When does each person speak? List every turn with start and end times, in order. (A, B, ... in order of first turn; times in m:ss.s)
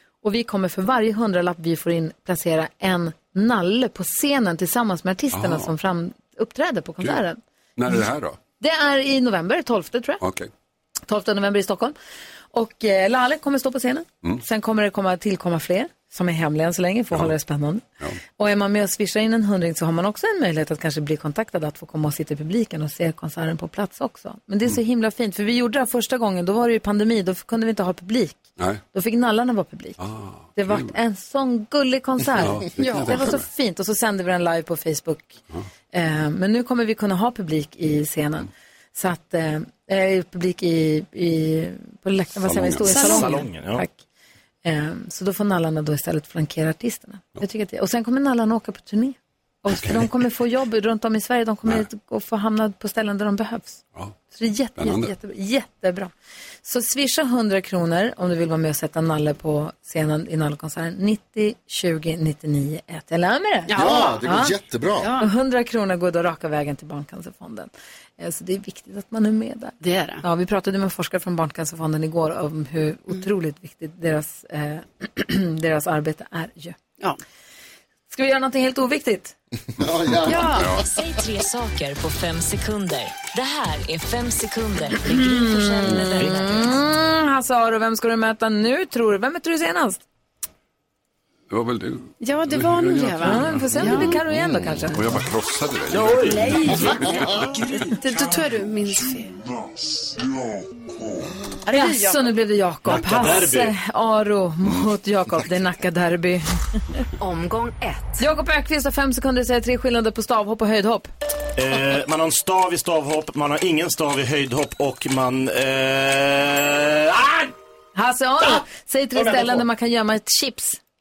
0:00.2-0:07.4 A
0:05.3-0:05.7 B
0:07.8-0:08.4 B
0:08.6-0:10.2 A
0:10.2-0:10.5 B
0:11.1-0:12.0 A
0:12.5-0:17.8 A
0:18.4-0:28.4 A
0:28.9-0:30.0 A
0:30.0-0:30.9 B
0:30.6-0:35.3 A
0:32.4-0:33.4 B
0:32.8-0:33.3 C
0:35.9-0:44.0 A
0:42.4-0:43.0 B
0:42.9-0:43.4 C
0:42.9-0:43.8 D
0:44.6-0:53.8 A
0:54.3-0:56.1 A
0:54.8-0:55.1 B
0:56.6-1:04.5 A
1:03.7-1:04.2 C
1:03.8-1:05.1 E
1:05.0-1:05.3 C
1:05.2-1:16.8 A
1:09.8-1:10.2 C
1:18.1-1:19.4 A
1:19.8-1:21.0 E
1:20.3-1:26.8 F
1:20.6-1:20.8 B
1:25.1-1:30.0 A
1:31.5-1:34.2 B
1:32.2-1:34.2 C
1:33.2-1:35.0 A
1:34.3-1:34.8 E
1:34.9-1:37.5 B
1:35.9-1:37.3 D
1:36.3-1:37.2 F
1:36.8-1:37.3 E
1:37.5-1:39.3 C
1:41.7-1:42.3 C
1:41.7-1:47.0 A
1:42.8-1:43.7 D
1:47.2-1:48.2 F
1:48.2-1:51.1 A
1:51.6-1:57.5 D
1:58.0-2:00.8 A
1:59.2-1:59.6 D